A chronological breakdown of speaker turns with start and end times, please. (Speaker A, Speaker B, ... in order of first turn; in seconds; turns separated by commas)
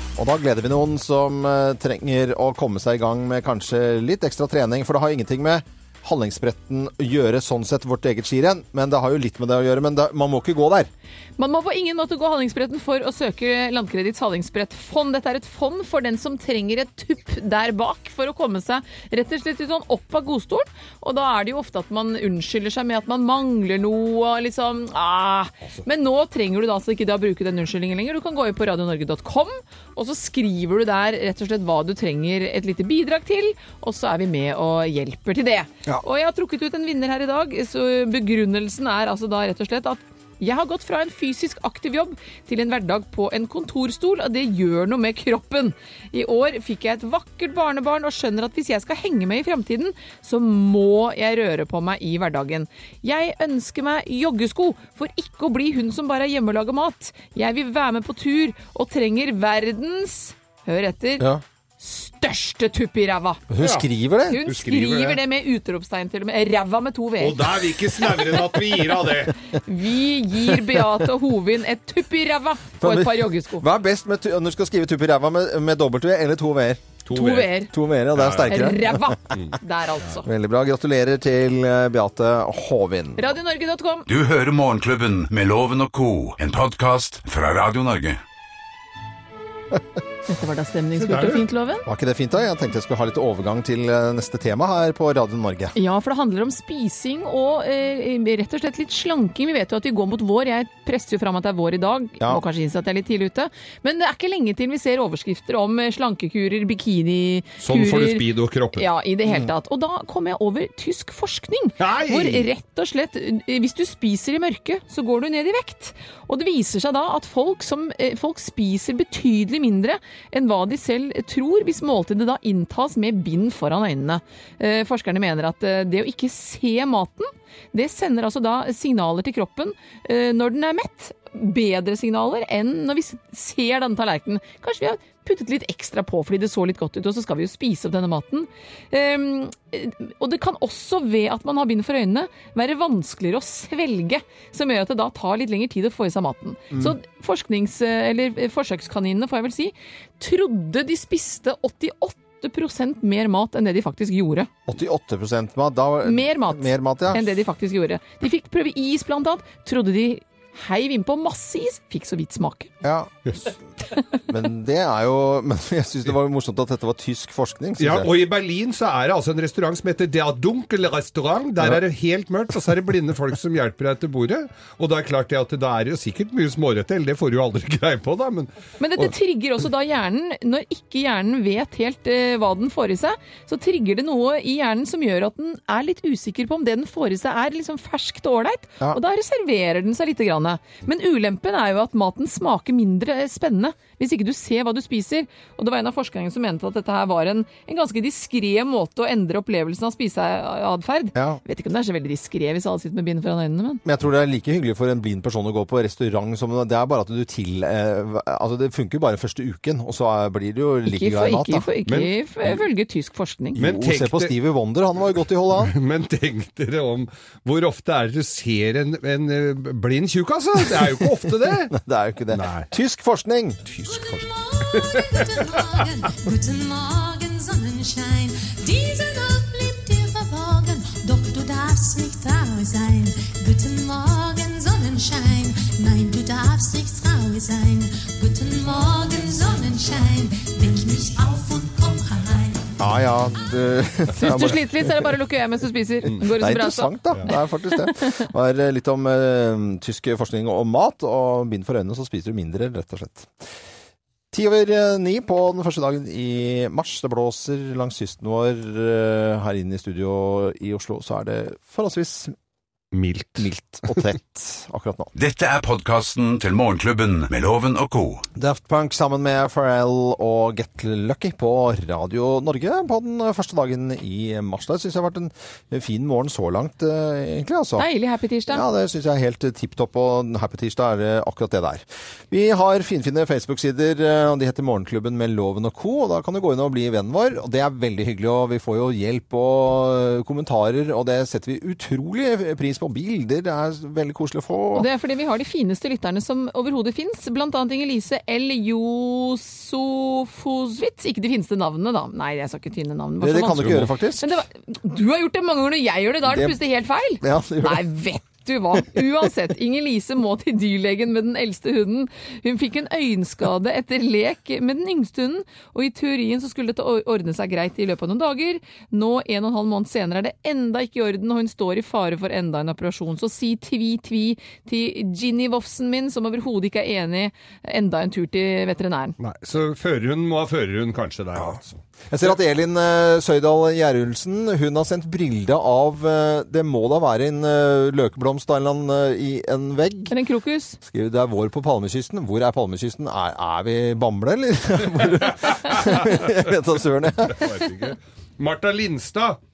Speaker A: 0.2-10.9, Speaker B: 11.4-61.3, Speaker B: 61.8-63.4, Speaker A: 63.5-64.4, Speaker C: 63.6-63.9, Speaker B: 64.3-67.6, Speaker C: 64.4-65.2, Speaker C: 67.2-69.3, Speaker B: 69.6-73.7, Speaker A: 72.8-77.0, Speaker C: 77.1-77.5, Speaker B: 77.1-77.7, Speaker A: 77.7-79.1, Speaker C: 78.1-78.7, Speaker B: 78.5-80.3, Speaker A: 80.2-83.3, Speaker B: 83.2-84.1, Speaker D: 84.1-88.2, Speaker B: 90.3-91.8, Speaker C: 91.1-91.4, Speaker A: 91.8-95.7, Speaker B: 95.7-154.5, Speaker C: 107.6-108.9, Speaker C: 111.8-112.5, Speaker A: 154.7-157.3, Speaker B: 156.0-162.7, Speaker A: 162.8-163.5, Speaker A: 164.3-168.1, Speaker C: 167.8-179.1, Speaker B: 178.8-203.8, Speaker A: 201.1-201.4, Speaker A: 203.8-211.7, Speaker B: 210.9-213.6, Speaker C: 211.9-212.6, Speaker C: 213.6-214.3, Speaker A: 213.6-215.7, Speaker C: 215.6-221.8, Speaker A: 221.7-223.6, Speaker C: 222.3-222.7, Speaker C: 223.7-225.8, Speaker E: 223.8-242.7, Speaker A: 242.8-245.1, Speaker B: 244.1-247.3, Speaker A: 246.4-253.3, Speaker B: 247.8-248.2, Speaker A: 254.3-262.3, Speaker C: 262.9-264.0, Speaker A: 263.4-265.1, Speaker D: 265.1-268.3, Speaker A: 268.4-277.9, Speaker B: 277.8-278.6, Speaker A: 278.5-294.9, Speaker B: 294.7-329.2, Speaker A: 303.2-304.2, Speaker C: 303.6-303.9, Speaker A: 306.3-306.6, Speaker A: 307.2-307.9, Speaker C: 329.2-331.8, Speaker A: 332.1-340.1, Speaker B: 340.1-340.8, Speaker A: 340.8-347.5, Speaker C: 345.5-346.1, Speaker C: 347.2-349.4